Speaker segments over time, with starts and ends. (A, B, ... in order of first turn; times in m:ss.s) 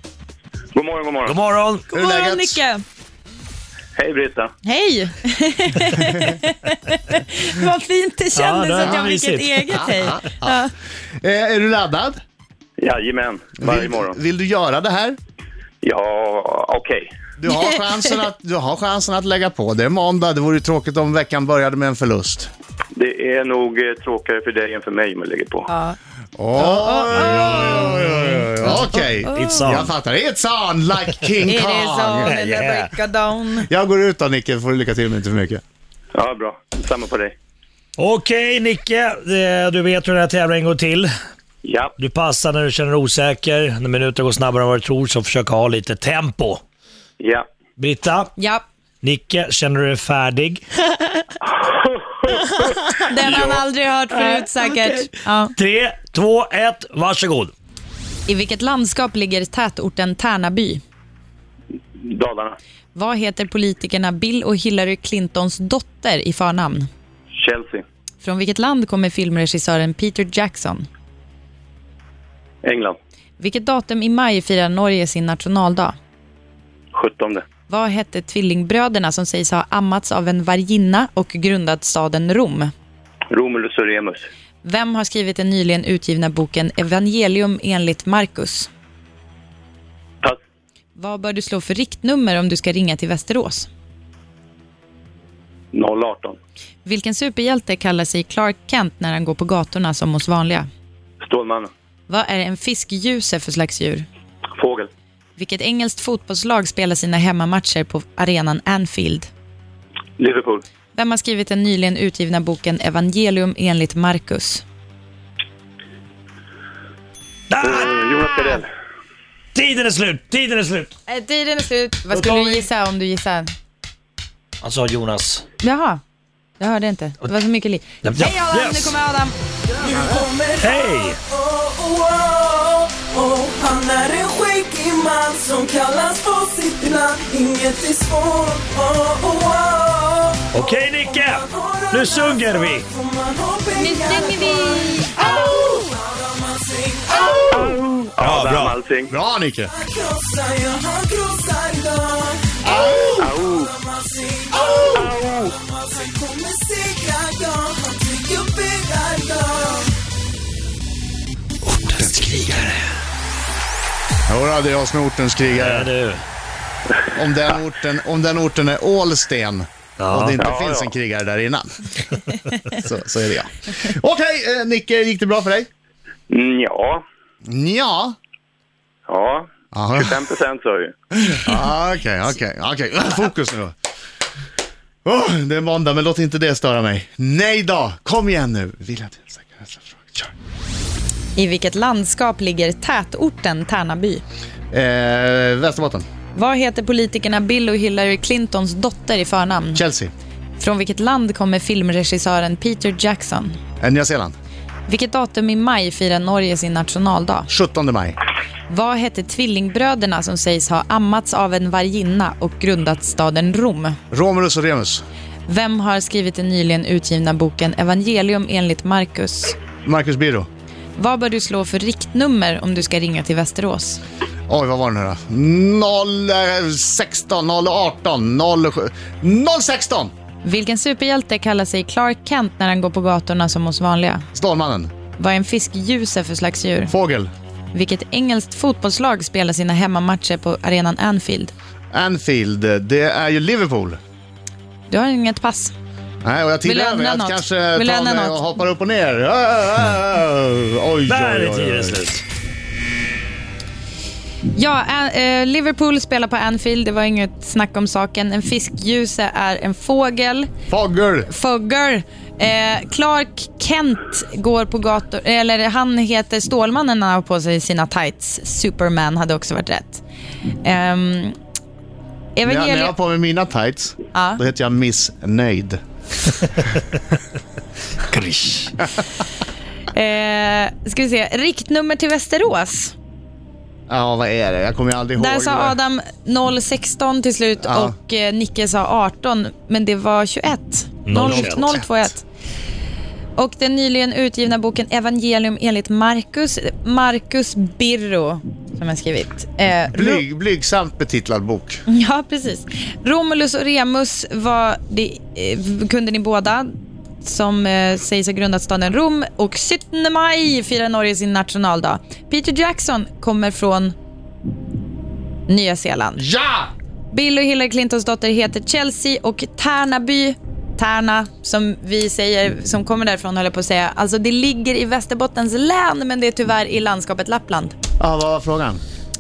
0:00.7-0:01.4 A
0:01.2-0:01.9 B
0:01.9-0:02.6 C
0:01.9-0:02.8 D
0:04.0-0:04.5 A
0:04.6-0:10.7 D
0:08.4-0:09.8 B
0:08.8-0:09.1 C
0:09.7-0:10.6 C
0:11.2-0:12.2 C
0:12.8-0:14.2 A
0:13.6-0:15.2 C
0:15.8-0:17.1 A
0:17.4-0:22.5 C
0:17.5-0:18.1 D
0:22.9-0:25.7 A
0:25.7-0:26.0 D
0:26.4-0:32.3 C
0:26.6-0:29.6 D
0:29.3-0:29.9 B
0:31.4-0:33.7 D
0:32.3-0:32.9 B
0:33.6-0:35.6 C
0:36.1-0:37.3 A
0:38.0-0:41.1 B
0:41.6-0:41.9 A
0:42.0-0:46.6 B
0:47.8-0:48.3 B
0:48.4-0:48.6 D
0:49.0-0:50.6 B
0:51.4-0:52.6 A
0:52.6-0:53.0 B
0:53.0-0:55.5 D
0:53.2-0:53.6 A
0:55.6-0:57.5 B
0:58.3-1:00.8 D
1:02.0-1:02.6 A
1:02.9-1:06.9 D
1:07.4-1:07.8 A
1:08.2-1:10.9 D
1:12.6-1:13.0 A
1:13.4-1:16.0 D
1:16.9-1:17.4 A
1:17.7-1:22.7 D
1:23.3-1:24.3 A
1:24.6-1:28.7 D
1:31.0-1:33.7 D
1:35.7-1:36.4 A
1:36.8-1:40.7 D
1:41.2-1:41.7 A
1:42.1-1:44.0 D
1:44.6-1:44.9 A
1:45.4-1:49.3 D
1:50.2-1:50.6 A
1:50.9-1:54.6 D
1:57.5-1:58.0 B
1:57.6-1:58.7 A
1:59.5-2:00.9 B
2:01.1-2:03.5 D
2:02.1-2:02.6 B
2:04.6-2:05.4 B
2:05.6-2:06.0 D
2:06.6-2:09.4 D
2:08.0-2:08.9 B
2:09.8-2:27.5 E
2:10.6-2:11.2 B
2:20.5-2:22.8 B
2:23.7-2:25.3 D
2:27.5-2:29.1 A
2:29.1-2:29.7 C
2:29.7-2:39.9 E
2:32.6-2:33.2 C
2:33.2-2:33.7 A
2:34.9-2:35.5 A
2:41.8-2:42.7 B
2:44.3-2:45.9 C
2:45.6-2:46.2 B
2:47.1-2:51.7 C
2:50.0-2:50.4 B
2:50.4-2:50.9 A
2:52.7-2:55.7 C
2:56.3-2:57.0 A
2:57.4-2:58.2 C
2:59.1-3:00.9 A
2:59.7-3:00.2 C
3:01.1-3:03.7 C
3:05.0-3:10.3 C
3:11.4-3:14.2 D
3:14.7-3:16.0 C
3:16.3-3:19.8 D
3:19.7-3:20.1 C
3:20.6-3:23.6 D
3:23.8-3:24.3 C
3:24.9-3:27.5 D
3:27.5-3:28.2 C
3:28.7-3:34.0 D
3:34.1-3:35.0 C
3:35.5-3:39.6 D
3:39.8-3:40.5 C
3:41.0-3:44.0 D
3:44.5-3:50.1 C
3:50.4-3:54.2 D
3:54.3-3:54.9 C
3:55.2-3:56.9 D
3:56.9-3:57.3 C
3:57.7-4:01.5 D
4:01.9-4:04.0 C
4:04.9-4:05.7 D
4:06.2-4:12.0 C
4:06.6-4:08.4 D
4:11.1-4:12.2 B
4:14.5-4:20.5 D
4:20.7-4:21.3 C
4:21.3-4:30.0 D
4:30.6-4:31.3 D
4:32.4-4:32.9 D
4:32.4-4:35.8 C
4:34.1-4:34.4 D
4:38.1-4:38.8 B
4:39.9-4:42.9 D
4:43.9-4:45.8 C
4:45.2-4:52.2 D
4:47.6-4:47.9 C
4:51.1-4:51.8 B
4:51.1-4:51.9 C
4:53.4-5:00.2 D
4:59.9-5:01.8 C
5:01.9-5:06.7 D
5:07.2-5:13.9 D
5:15.5-5:16.2 D
5:16.2-5:16.7 C
5:17.1-5:27.7 D
5:28.0-5:28.8 C